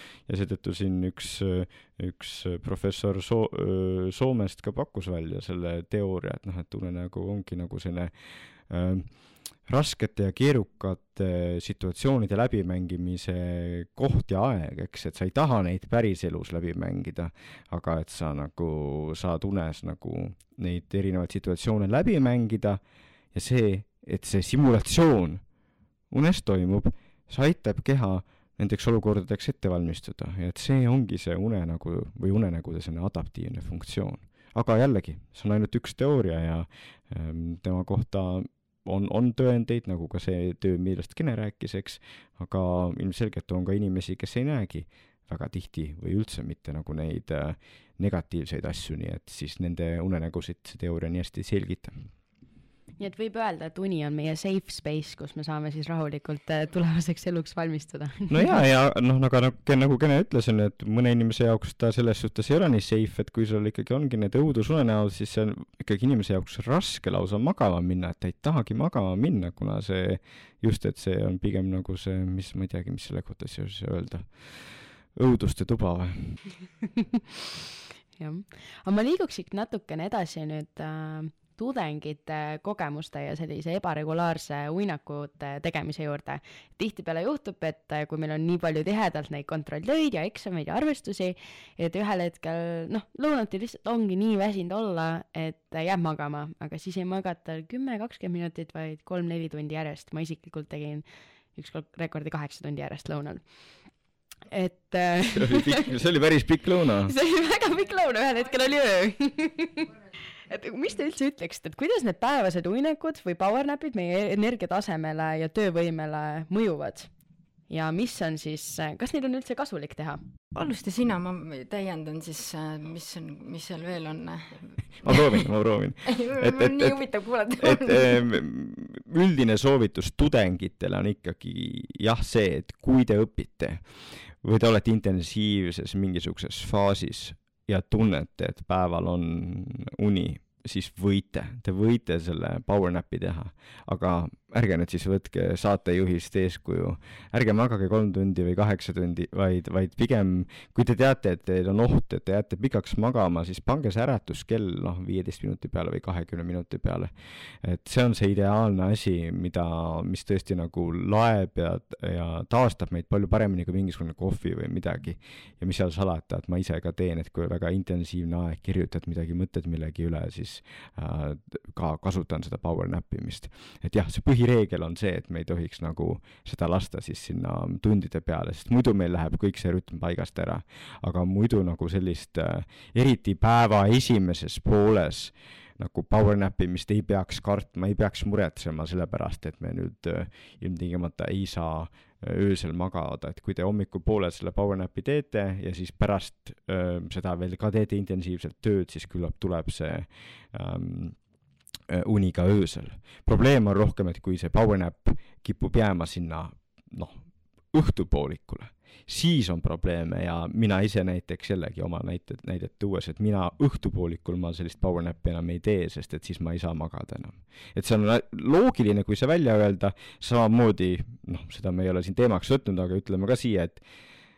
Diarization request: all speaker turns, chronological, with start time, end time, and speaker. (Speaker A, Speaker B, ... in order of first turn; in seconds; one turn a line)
Speaker A: 0.3-8.1
Speaker A: 8.7-9.1
Speaker A: 9.7-22.8
Speaker A: 23.3-25.4
Speaker A: 26.1-51.9
Speaker B: 53.0-58.5
Speaker A: 58.3-76.4
Speaker B: 78.2-101.0
Speaker B: 101.6-103.4
Speaker B: 104.5-106.0
Speaker A: 105.3-107.1
Speaker B: 107.0-110.0
Speaker B: 110.5-117.1
Speaker B: 117.7-120.2
Speaker C: 120.5-125.3
Speaker A: 125.0-127.0
Speaker C: 126.1-128.2
Speaker A: 127.6-133.8
Speaker A: 134.4-201.2
Speaker A: 201.9-207.2
Speaker A: 207.7-223.8